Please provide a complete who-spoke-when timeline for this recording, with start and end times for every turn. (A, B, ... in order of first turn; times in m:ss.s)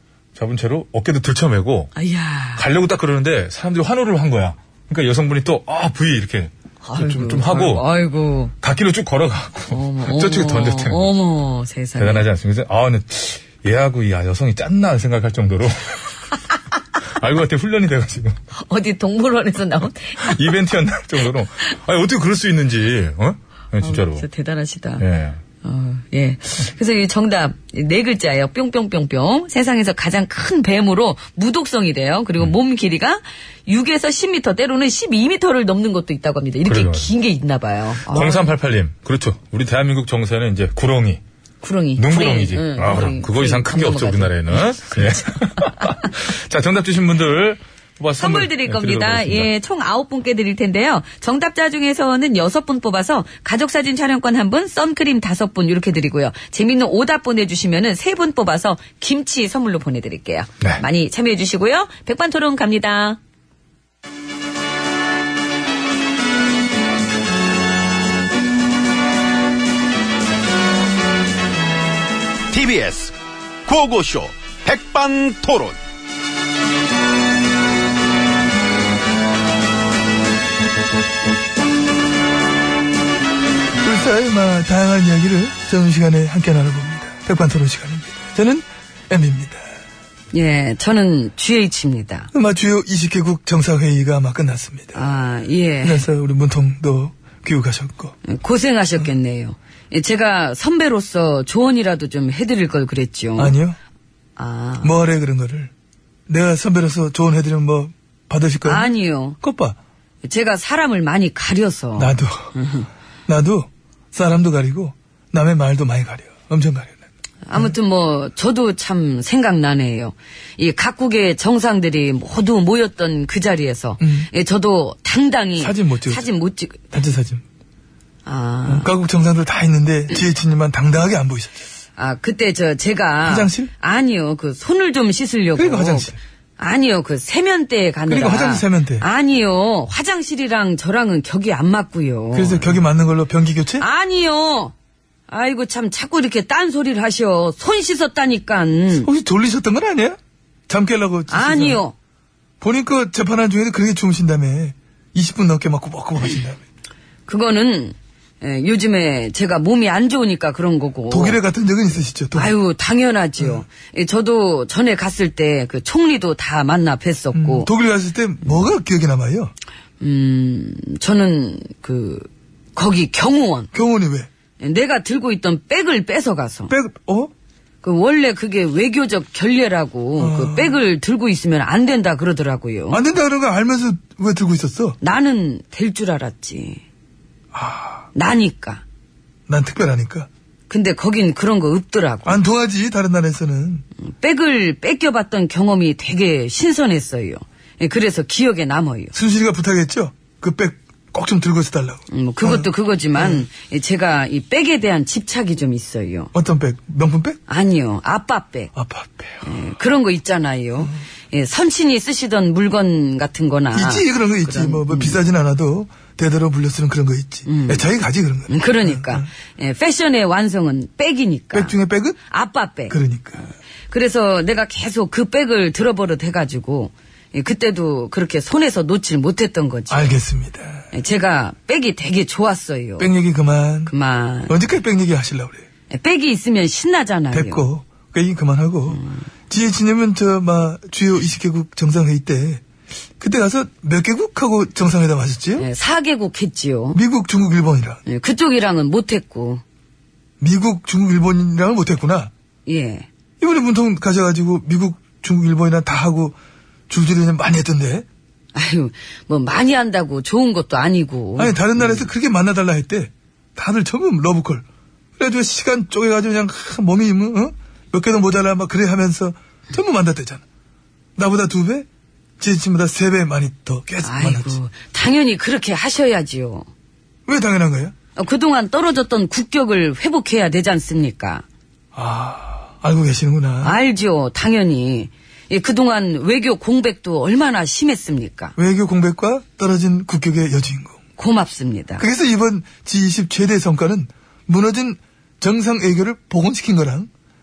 0:00.4-0:01.9 A
0:02.0-0:02.7 B
0:02.6-0:07.9 A
0:06.8-0:08.5 B
0:08.6-0:11.1 A
0:09.7-0:12.3 B
0:12.0-0:16.0 A
0:17.2-0:18.4 A
0:18.6-0:20.5 B
0:20.2-0:24.3 A
0:23.8-0:25.0 B
0:25.0-0:25.4 A
0:25.6-0:38.5 B
0:36.6-0:37.1 A
0:38.1-0:41.2 A
0:41.6-0:46.0 B
0:42.0-0:49.5 A
0:48.2-1:03.2 B
1:12.5-1:13.2 C
1:13.7-1:15.8 C
1:23.8-1:29.6 D
1:30.3-1:32.3 B
1:32.3-1:35.0 D
1:34.9-1:36.1 B
1:35.8-1:38.2 D
1:38.2-1:43.6 B
1:43.4-1:43.8 D
1:44.4-1:44.9 B
1:44.8-1:45.7 D
1:46.3-1:49.8 D
1:48.6-1:49.4 B
1:50.2-1:52.9 B
1:52.0-1:52.5 D
1:53.3-1:57.0 D
1:57.4-2:06.8 B
2:04.0-2:04.3 D
2:05.6-2:06.3 D
2:06.9-2:07.4 D
2:08.3-2:08.9 B
2:08.7-2:11.6 D
2:12.0-2:22.8 B
2:13.2-2:13.7 D
2:15.6-2:16.2 D
2:18.1-2:19.0 D
2:22.3-2:23.8 D
2:23.8-2:24.7 B
2:25.3-2:29.1 B
2:29.0-2:30.2 D
2:30.7-2:31.8 D
2:31.3-2:31.9 B
2:32.6-2:36.6 D
2:37.3-2:41.4 B
2:41.1-2:42.6 D
2:42.3-2:47.7 B
2:47.3-2:49.5 D
2:50.0-2:53.7 B
2:53.7-2:54.3 D
2:54.6-2:56.7 B
2:56.7-2:57.3 D
2:57.8-3:03.0 B
3:00.2-3:00.8 D
3:02.9-3:05.0 D
3:05.0-3:06.8 B
3:07.5-3:08.1 D
3:08.2-3:08.8 B
3:09.5-3:10.3 D
3:10.7-3:12.4 B
3:12.2-3:13.8 D
3:14.0-3:19.1 B
3:19.1-3:23.4 D
3:22.1-3:26.3 B
3:26.3-3:27.4 D
3:27.5-3:28.7 B
3:28.8-3:29.5 D
3:29.4-3:35.2 B
3:33.7-3:39.3 D
3:37.5-3:37.9 B
3:38.5-3:41.8 B
3:41.5-3:42.2 D
3:42.3-3:43.0 B
3:42.9-3:43.5 D
3:43.9-3:50.1 B
3:49.9-3:50.9 D
3:50.9-3:53.1 B
3:53.0-3:53.9 D
3:53.9-3:54.5 B
3:54.5-3:55.6 D
3:55.9-3:57.6 B
3:57.3-4:02.6 D
3:58.9-3:59.2 B
4:03.2-4:05.7 D
4:05.6-4:07.0 B
4:06.9-4:08.0 D
4:08.1-4:09.6 B
4:10.4-4:12.3 D
4:12.7-4:13.1 B
4:13.4-4:16.4 D
4:16.9-4:18.1 D
4:18.6-4:22.1 B
4:21.4-4:24.6 D
4:25.2-4:30.4 D
4:31.2-4:31.9 D
4:32.4-4:34.6 D
4:34.0-4:36.7 B
4:37.3-4:37.9 D
4:38.2-4:41.4 B
4:42.0-4:43.8 D
4:43.6-4:48.6 B
4:48.6-4:51.0 D
4:51.2-4:52.0 B
4:52.0-4:57.1 D